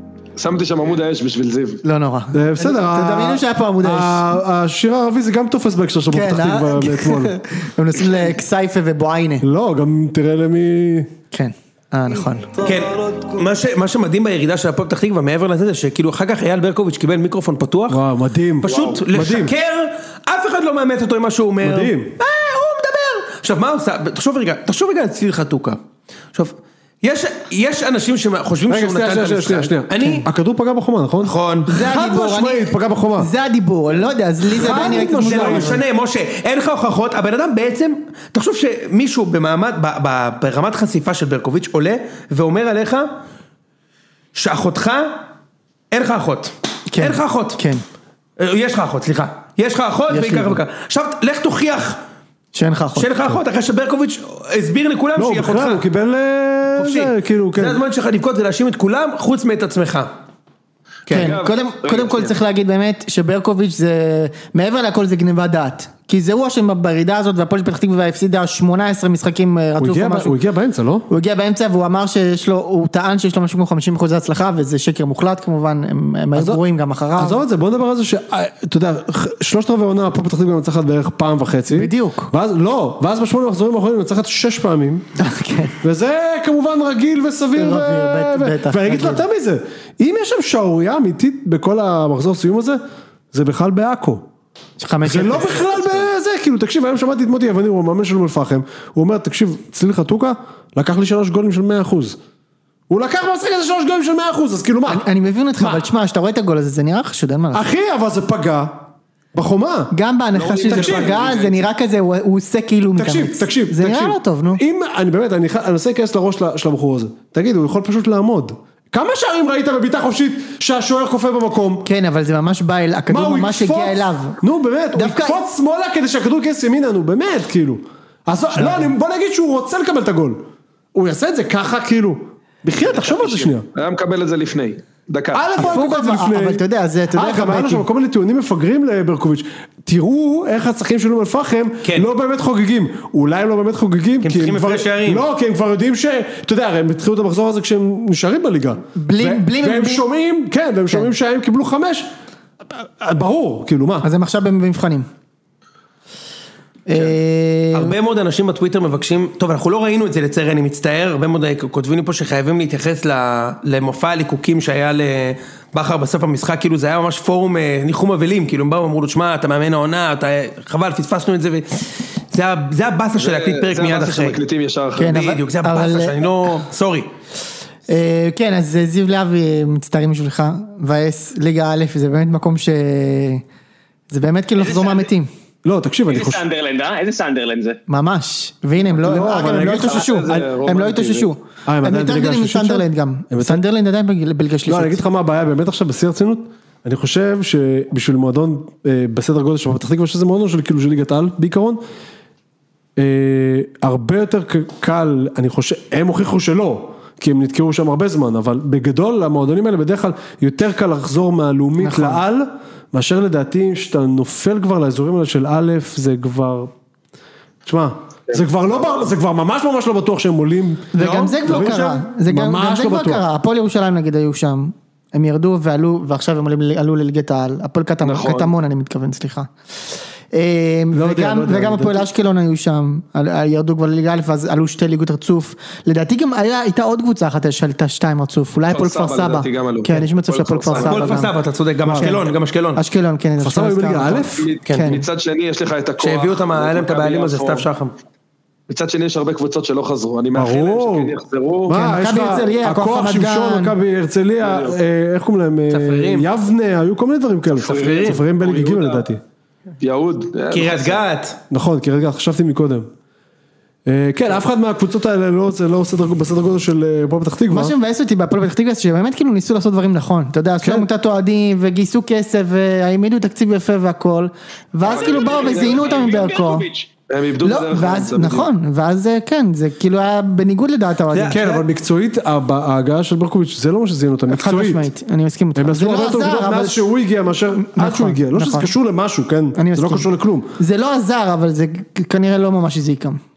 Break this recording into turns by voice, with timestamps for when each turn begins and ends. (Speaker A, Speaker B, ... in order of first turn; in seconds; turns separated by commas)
Speaker A: 0.4-1.8, Speaker B: 1.8-4.2, Speaker C: 2.3-7.4, Speaker B: 6.1-9.4, Speaker C: 9.4-11.1, Speaker B: 11.3-12.5, Speaker D: 12.6-18.0, Speaker C: 17.9-19.5, Speaker D: 18.6-25.8, Speaker A: 18.7-19.0, Speaker C: 21.6-22.2, Speaker D: 26.3-30.3, Speaker C: 28.7-33.3, Speaker D: 31.2-31.7, Speaker B: 31.7-35.8, Speaker C: 34.5-35.8, Speaker D: 34.7-43.1, Speaker D: 44.4-45.2, Speaker D: 45.9-47.6, Speaker B: 46.9-47.8, Speaker D: 48.4-52.0, Speaker B: 50.1-50.6, Speaker B: 52.5-53.1, Speaker D: 53.0-55.8, Speaker C: 55.2-57.8, Speaker D: 56.8-60.1, Speaker D: 61.1-61.4, Speaker B: 61.1-70.3, Speaker A: 61.1-62.3, Speaker C: 69.8-71.1, Speaker B: 71.1-77.4, Speaker C: 76.3-76.6, Speaker C: 77.2-85.1, Speaker B: 81.7-82.3, Speaker B: 85.2-85.8, Speaker C: 85.8-92.8, Speaker B: 87.5-89.2, Speaker C: 93.3-94.3, Speaker B: 94.8-96.0, Speaker C: 95.0-102.2, Speaker C: 102.9-105.1, Speaker B: 104.9-107.7, Speaker C: 105.6-105.8, Speaker C: 107.5-109.9, Speaker B: 109.9-114.6, Speaker A: 110.3-111.7, Speaker C: 110.7-111.3, Speaker C: 113.0-121.9, Speaker B: 121.8-124.4, Speaker C: 123.1-130.4, Speaker B: 125.0-125.5, Speaker B: 128.6-128.9, Speaker C: 130.9-133.7, Speaker A: 133.1-135.5, Speaker C: 135.3-136.6, Speaker B: 135.6-137.8, Speaker C: 137.1-152.1, Speaker D: 144.2-145.3, Speaker B: 149.0-150.1, Speaker C: 152.7-154.1, Speaker B: 154.0-155.1, Speaker B: 156.9-157.9, Speaker D: 157.7-174.4, Speaker A: 173.2-175.1, Speaker B: 175.0-176.6, Speaker D: 175.1-177.1, Speaker B: 177.9-183.4, Speaker B: 184.1-185.3, Speaker E: 184.6-185.1, Speaker C: 185.6-186.4, Speaker E: 186.1-187.8, Speaker B: 187.9-195.0, Speaker C: 189.0-190.5, Speaker A: 189.5-191.3, Speaker C: 191.7-193.6, Speaker C: 194.7-201.8, Speaker C: 203.0-216.7, Speaker B: 211.8-212.2, Speaker C: 217.7-223.2, Speaker A: 218.3-219.0, Speaker B: 220.9-229.5, Speaker D: 221.0-222.0, Speaker A: 228.0-228.5, Speaker B: 230.3-241.3, Speaker C: 230.9-232.1, Speaker A: 238.7-241.2, Speaker D: 240.7-242.8, Speaker C: 241.8-242.2, Speaker B: 242.0-245.1, Speaker C: 243.4-244.6, Speaker A: 244.4-247.7, Speaker D: 244.7-245.0, Speaker D: 246.0-247.9, Speaker A: 248.7-251.7, Speaker C: 250.3-259.2, Speaker B: 251.7-253.8, Speaker A: 254.4-254.8, Speaker D: 255.7-256.3, Speaker A: 257.5-259.1, Speaker D: 257.6-258.2, Speaker A: 259.8-261.0, Speaker D: 260.5-261.4, Speaker C: 261.5-262.9, Speaker C: 263.9-267.7, Speaker B: 267.5-276.7, Speaker C: 270.6-270.9, Speaker E: 274.8-276.9, Speaker A: 274.9-276.0, Speaker A: 277.1-278.5, Speaker B: 277.4-281.4, Speaker D: 281.1-281.6, Speaker C: 281.3-284.9, Speaker B: 284.3-286.9, Speaker C: 285.6-290.5, Speaker B: 287.6-288.7, Speaker B: 289.6-293.2